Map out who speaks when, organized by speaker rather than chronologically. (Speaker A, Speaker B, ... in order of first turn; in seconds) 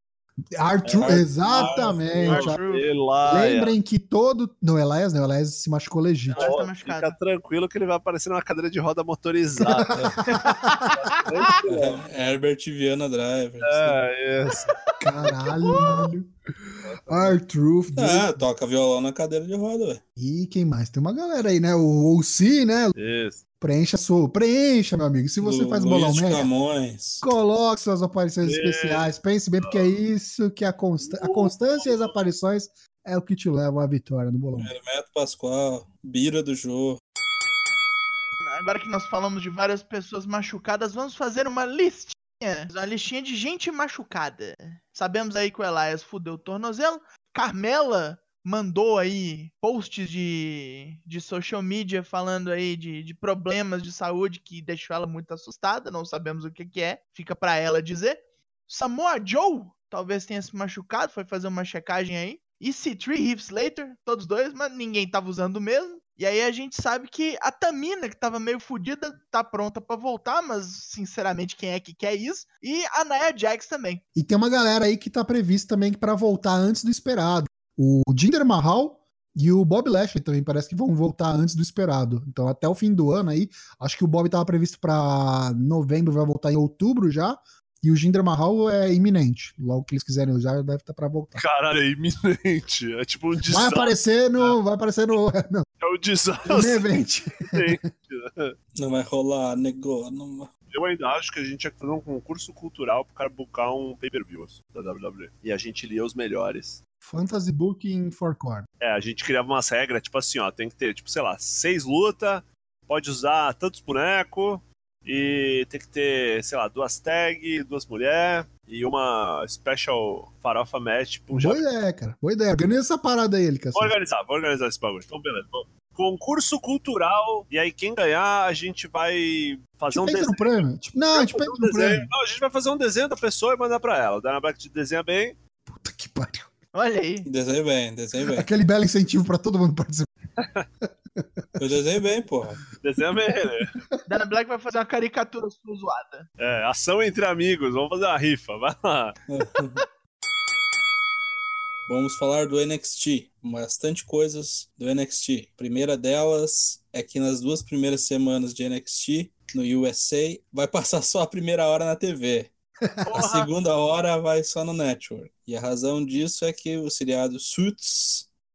Speaker A: 0.6-2.6, 3.3-6.5, 9.6-10.9, 15.0-18.4, 20.2-23.0, 23.6-26.5, 27.2-34.7, 74.2-91.4, 93.5-95.7, 96.5-97.9, 107.0-108.7, 121.3-124.0, 129.9-132.1, 135.7-136.5, 138.3-140.1
Speaker B: 0.8-3.8, 6.4-10.0, 10.8-12.0, 13.6-14.8, 16.8-17.4, 23.0-23.4, 28.4-29.9, 31.0-32.2, 91.4-94.6, 95.8-96.9, 97.5-98.5, 100.7-106.8, 108.8-121.6, 123.8-135.4, 140.4-140.7, 142.8-143.7, 146.4-149.2
Speaker C: 1.0-1.3, 9.9-10.2, 11.7-14.0, 17.9-20.0, 25.4-27.3, 34.6-37.0, 98.8-100.5, 137.2-138.5, 141.6-142.6, 149.3-149.8, 151.9-162.5, 163.1-168.3
Speaker D: 1.4-2.9, 6.3-7.2, 10.3-11.4, 14.5-16.1, 38.4-74.0, 136.7-137.3, 144.1-146.3, 163.1-163.5